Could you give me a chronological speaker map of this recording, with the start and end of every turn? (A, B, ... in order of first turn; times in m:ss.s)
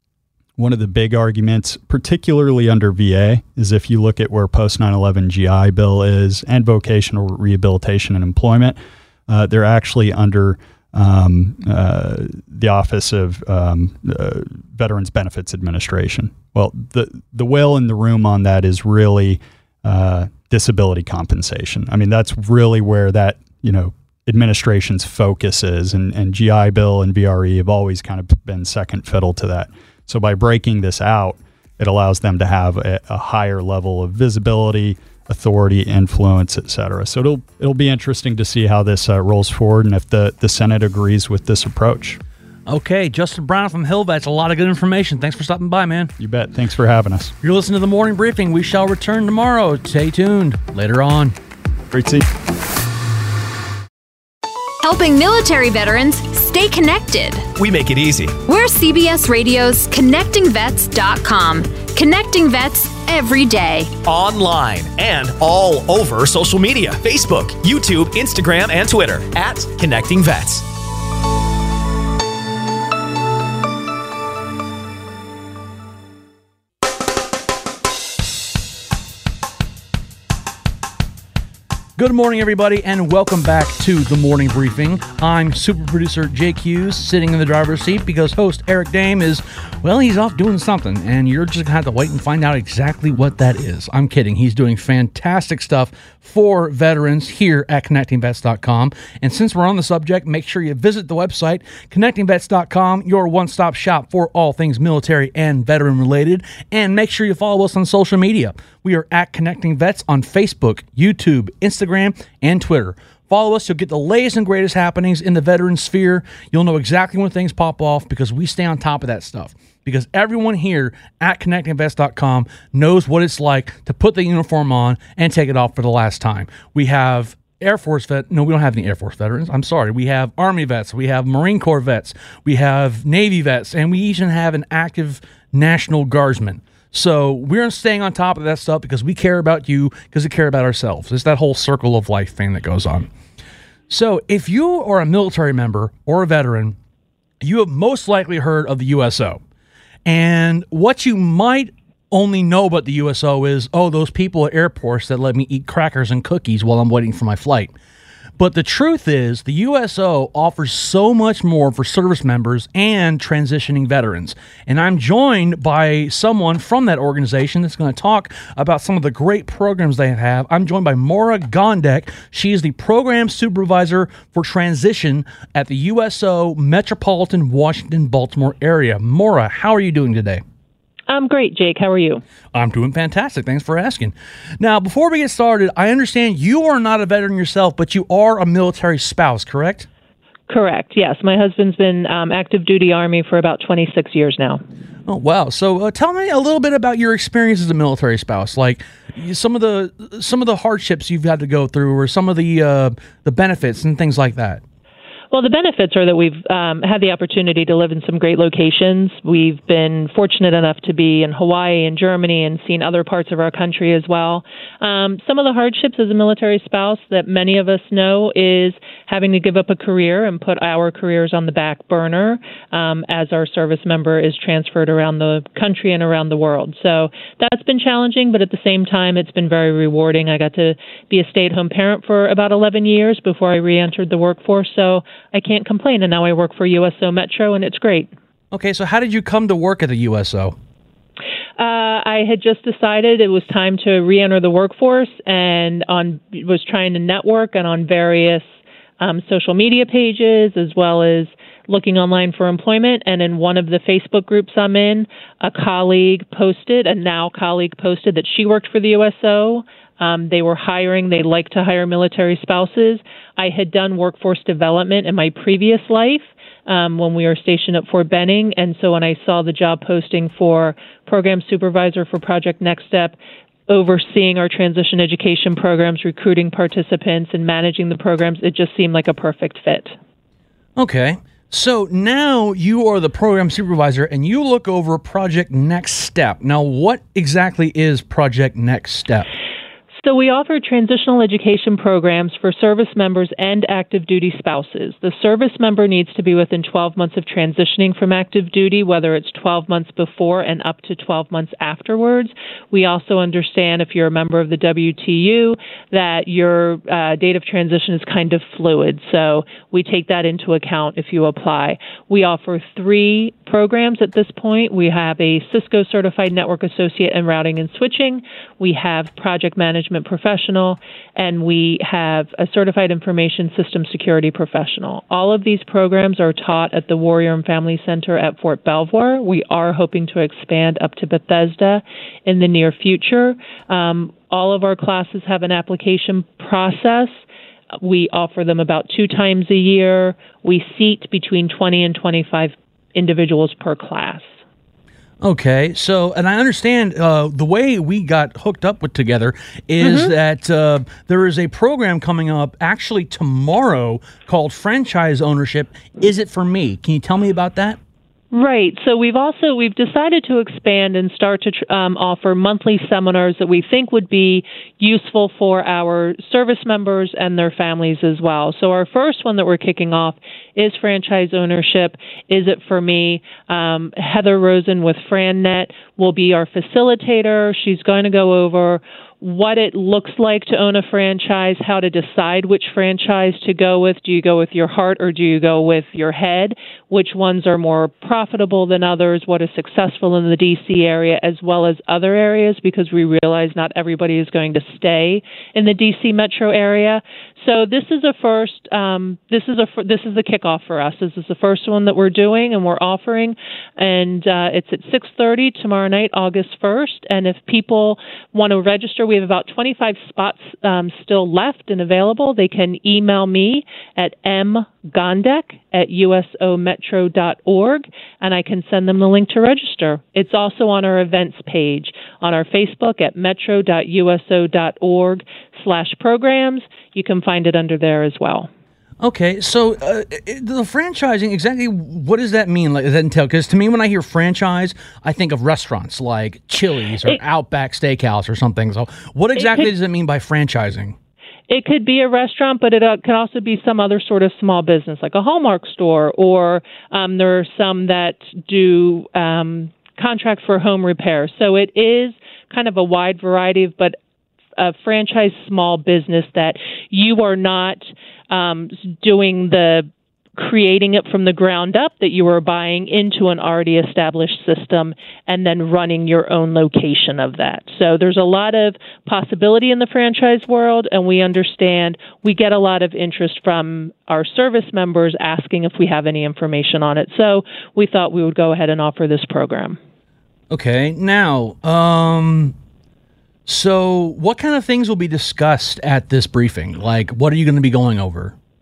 0:00.6-0:08.8 A
0:09.3-0:42.2 A
0:42.7-0:46.1 B
0:46.2-0:47.3 A
0:47.4-0:51.4 B
0:51.9-0:52.3 A
0:54.8-0:57.5 C
0:57.6-0:58.4 D
0:58.4-1:03.9 C
1:04.0-1:10.7 D
1:22.0-2:23.1 B
2:23.9-2:26.8 B
2:27.4-2:29.4 B
2:30.0-2:37.7 B
2:38.4-3:00.4 B
3:01.1-3:02.2 E
3:02.5-3:09.9 B
3:10.5-3:14.6 E
3:15.1-3:24.6 B
3:25.3-3:58.1 E
3:58.5-4:00.6 B
4:01.6-4:08.4 E
4:09.0-4:33.2 E
4:33.7-4:39.9 E
4:40.8-4:49.3 B
4:50.0-5:37.2 E
5:37.8-5:44.3 E
5:45.2-5:57.8 B
5:49.8-5:50.1 E
5:58.3-7:08.5 E
7:09.0-7:21.0 B
7:19.4-7:19.7 E
7:21.5-7:34.0 E
7:34.6-7:59.8 E
8:00.5-8:02.6 B
8:03.5-8:08.3 B